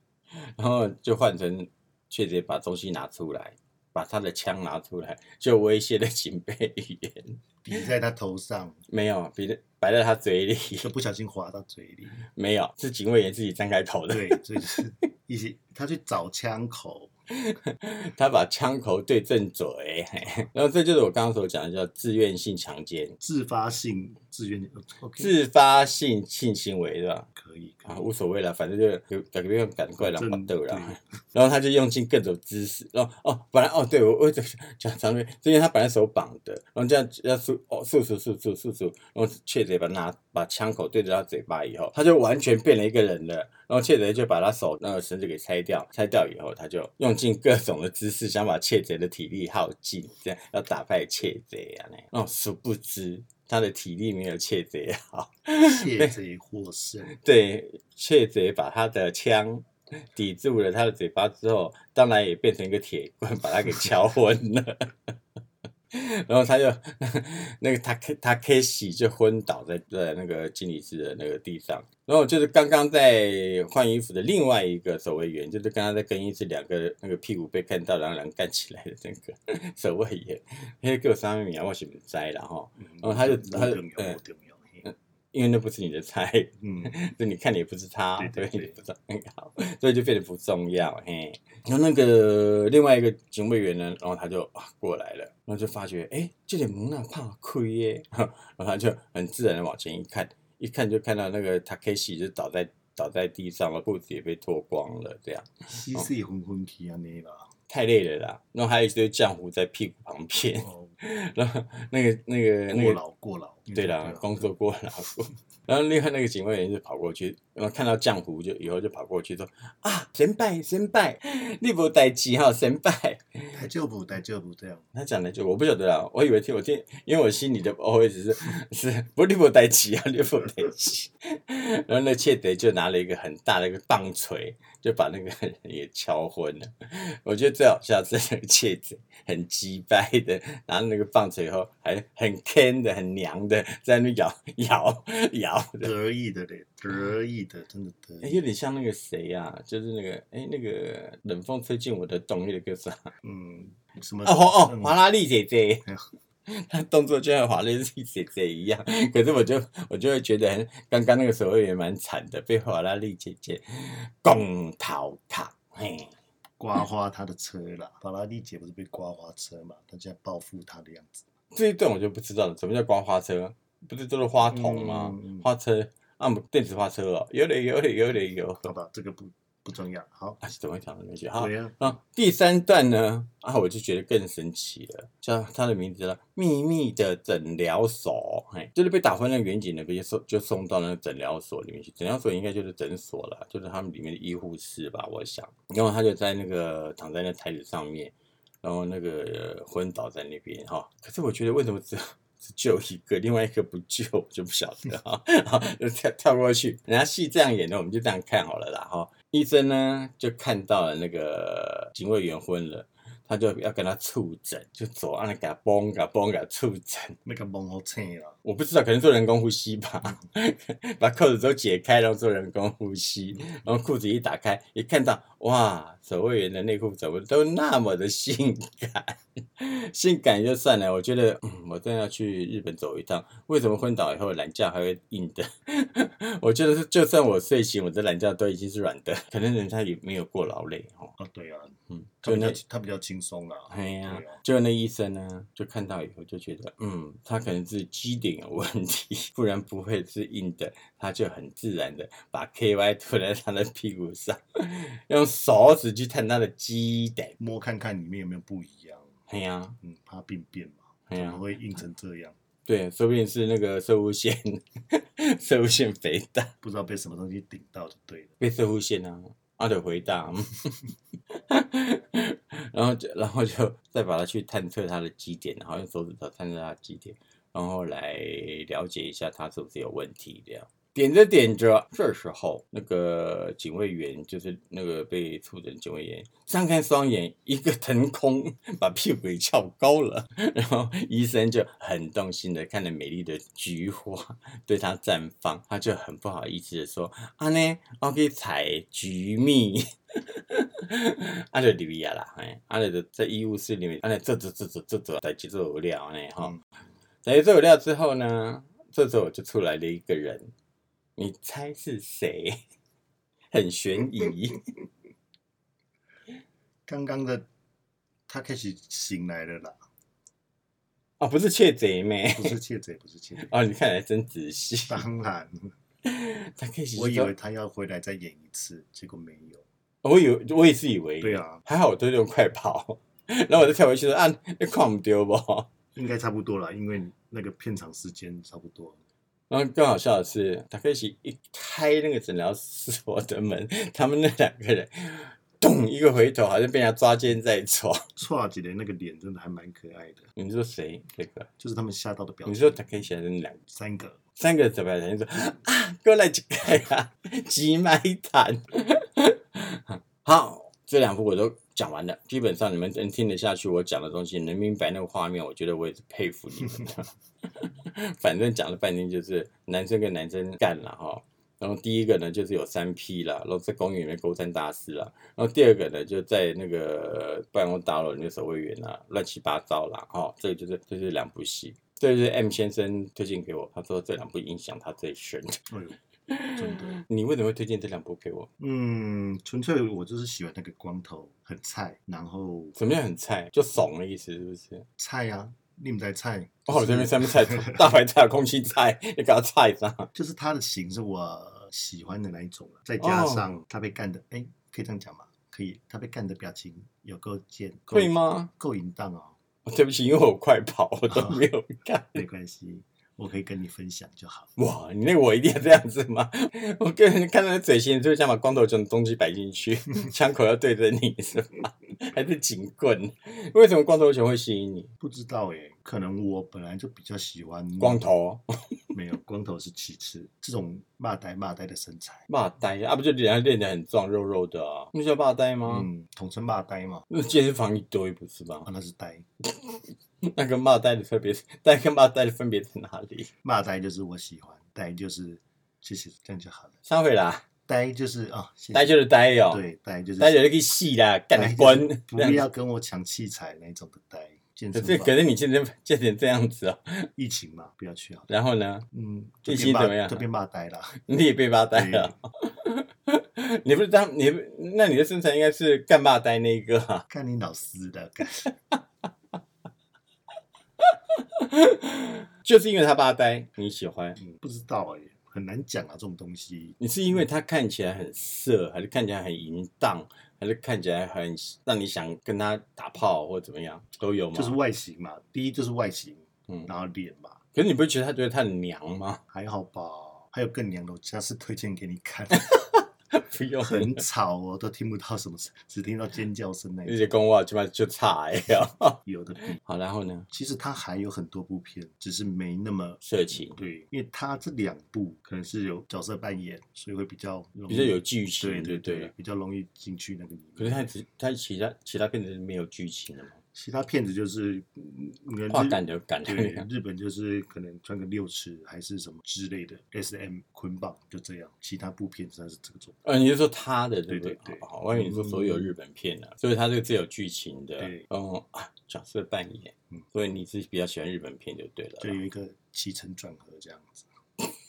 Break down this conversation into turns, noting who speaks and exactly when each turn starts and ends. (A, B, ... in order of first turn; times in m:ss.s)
0:00.4-0:07.4 A
0:07.6-0:08.8 B
0:08.9-0:10.9 A
0:10.8-0:12.2 B
0:12.3-0:14.4 A
0:14.1-0:17.1 B
0:17.4-0:23.2 A
0:23.2-0:25.3 B
0:25.2-0:27.3 A
0:27.3-0:28.0 B
0:27.8-0:56.1 A
0:30.0-0:31.0 B
0:55.6-0:57.1 B
0:57.1-1:05.1 A
1:05.9-1:24.2 A
1:22.8-1:24.8 B
1:24.8-1:46.1 A
1:26.6-1:27.0 B
1:28.2-1:28.8 B
1:45.7-1:47.5 B
1:47.7-1:53.0 A
1:50.6-1:50.9 B
1:52.7-1:54.5 B
1:53.7-2:03.5 A
2:03.5-2:04.8 B
2:04.9-2:25.9 A
2:25.8-2:28.4 B
2:28.2-2:33.1 A
2:33.2-2:35.0 B
2:34.2-2:35.8 A
2:36.5-2:46.1 A
2:46.6-2:51.2 B
2:51.5-2:58.7 A
2:54.5-2:55.5 B
2:58.6-3:00.4 B
3:00.4-3:37.2 A
3:01.4-3:02.0 B
3:37.2-3:38.4 B
3:38.4-4:01.1 A
4:01.2-4:04.4 B
4:01.9-4:02.6 A
4:03.7-4:17.4 A
4:17.4-4:19.1 B
4:19.3-4:19.8 A
4:19.8-4:22.4 B
4:21.1-4:21.4 A
4:22.6-4:26.5 A
4:26.6-4:28.4 B
4:28.4-4:30.8 A
4:31.4-5:06.6 A
5:07.2-5:10.5 A
5:11.2-5:12.6 A
5:13.5-5:14.6 A
5:16.9-5:17.5 B
5:18.3-5:19.8 B
5:21.2-5:22.6 A
5:22.3-5:23.5 B
5:23.4-5:25.0 A
5:24.9-5:25.7 B
5:26.0-5:27.3 A
5:26.9-5:29.6 B
5:30.0-5:35.7 A
5:31.2-5:31.6 B
5:35.9-5:39.0 B
5:39.5-5:48.0 A
5:48.2-5:50.3 B
5:50.4-5:51.5 A
5:51.6-5:52.8 B
5:52.4-5:53.6 A
5:53.7-5:54.2 B
5:54.4-6:25.6 A
6:25.7-6:26.0 B
6:26.3-6:28.5 A
6:26.5-6:27.0 B
6:28.6-6:32.8 B
6:32.8-6:34.8 A
6:35.0-6:37.9 B
6:36.7-6:40.1 A
6:40.1-6:49.4 B
6:43.0-6:43.5 A
6:47.9-6:48.5 A
6:49.6-6:52.2 A
6:51.1-6:51.4 B
6:52.1-6:54.5 B
6:54.6-7:04.9 A
7:05.0-7:08.0 B
7:07.8-7:08.4 A
7:08.9-7:12.3 B
7:12.3-7:15.9 A
7:15.6-7:17.0 B
7:17.1-7:18.7 A
7:18.6-7:19.2 B
7:19.6-7:23.3 A
7:23.4-7:26.8 B
7:26.9-7:27.4 A
7:27.7-7:30.5 B
7:28.7-7:29.6 A
7:30.2-7:32.4 A
7:31.3-7:35.2 B
7:34.7-7:37.1 A
7:37.2-7:38.3 B
7:38.3-7:38.8 A
7:38.9-7:41.0 B
7:39.4-7:40.2 A
7:41.0-7:47.1 A
7:41.7-7:42.2 B
7:47.1-7:48.5 B
7:50.8-7:54.2 A
7:54.2-7:56.8 B
7:56.8-8:04.6 A
8:04.3-8:07.4 B
8:07.5-8:09.2 A
8:09.3-8:12.6 B
8:12.4-8:14.0 A
8:13.6-8:17.2 B
8:16.8-8:19.0 A
8:19.0-8:19.6 B
8:19.6-8:20.3 A
8:20.3-8:30.9 B
8:23.0-8:23.6 A
8:27.7-8:29.1 A
8:30.6-8:33.4 A
8:33.5-8:43.0 B
8:35.5-8:36.7 A
8:43.0-8:52.2 A
8:44.1-8:45.7 B
8:47.8-8:48.1 B
8:52.0-8:54.1 B